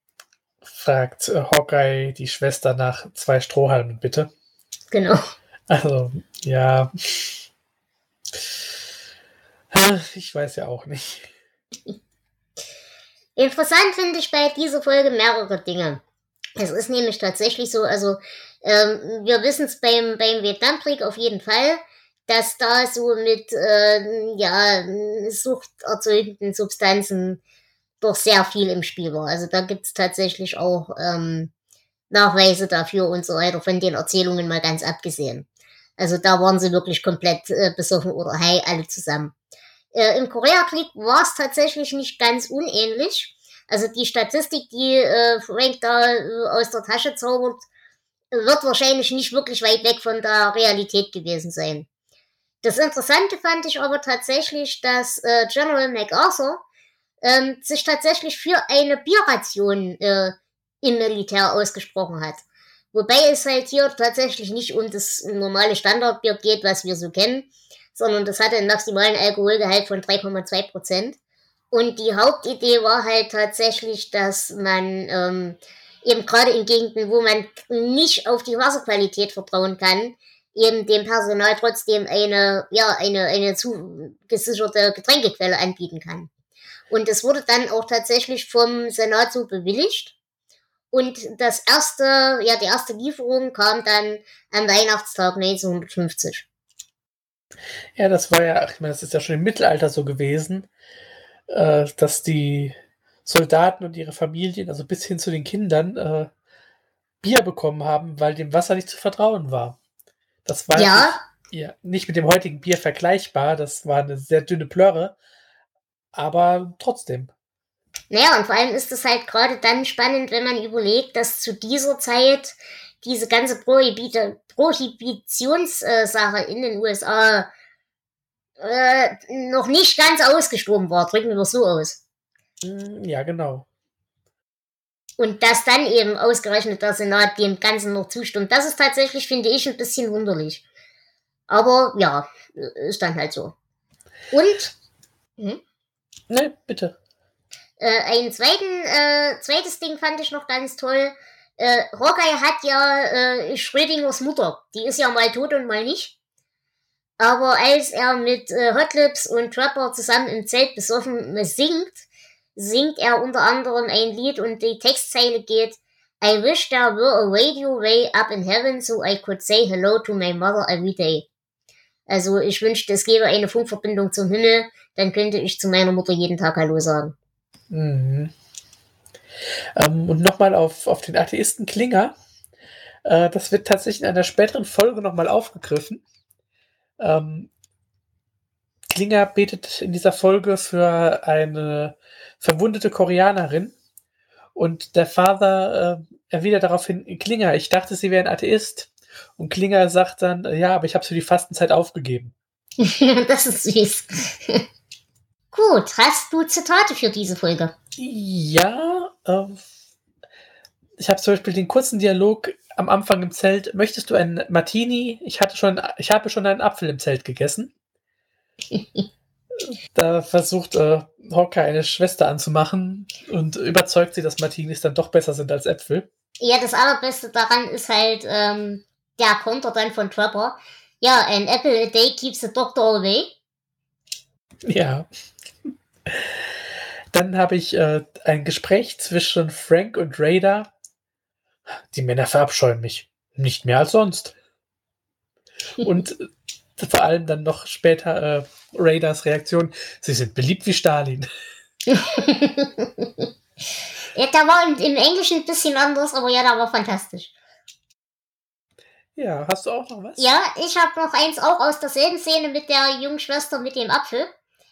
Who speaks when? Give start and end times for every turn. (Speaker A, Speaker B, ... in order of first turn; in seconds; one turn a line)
Speaker A: 0.7-4.3
Speaker B: 4.9-5.2
Speaker A: 5.7-7.4
Speaker A: 9.7-11.3
Speaker B: 13.4-16.0
Speaker B: 16.6-27.4
Speaker B: 28.0-31.5
Speaker B: 32.1-35.5
Speaker B: 36.0-39.3
Speaker B: 39.9-47.7
Speaker B: 48.3-51.9
Speaker B: 52.6-56.6
Speaker B: 57.2-71.2
Speaker B: 71.7-86.3
Speaker B: 86.9-90.2
Speaker B: 90.9-96.5
Speaker A: 98.0-100.7
Speaker A: 101.5-106.3
Speaker A: 107.2-109.8
Speaker A: 110.5-115.2
Speaker B: 110.8-111.2
Speaker A: 116.1-117.3
Speaker B: 118.1-127.5
Speaker B: 128.6-132.0
Speaker A: 132.6-133.7
Speaker B: 135.2-140.6
Speaker B: 141.5-143.5
Speaker B: 144.3-144.7
Speaker A: 146.3-147.0
Speaker B: 147.8-156.2
Speaker B: 157.2-171.3
Speaker B: 172.1-177.2
Speaker A: 177.7-178.3
Speaker A: 179.8-182.1
Speaker A: 183.1-186.0
Speaker A: 187.0-187.5
Speaker A: 188.9-193.8
Speaker A: 194.6-202.3
Speaker B: 202.8-204.6
Speaker B: 205.5-207.7
Speaker A: 208.0-209.6
Speaker A: 211.0-217.7
Speaker B: 218.7-219.1
Speaker A: 219.9-226.1
Speaker B: 226.4-233.3
Speaker A: 234.7-235.1
Speaker A: 236.1-236.4
Speaker A: 237.1-240.7
Speaker A: 241.9-244.4
Speaker A: 245.8-251.3
Speaker B: 251.9-253.3
Speaker B: 254.1-257.3
Speaker A: 259.2-260.3
Speaker B: 260.2-264.3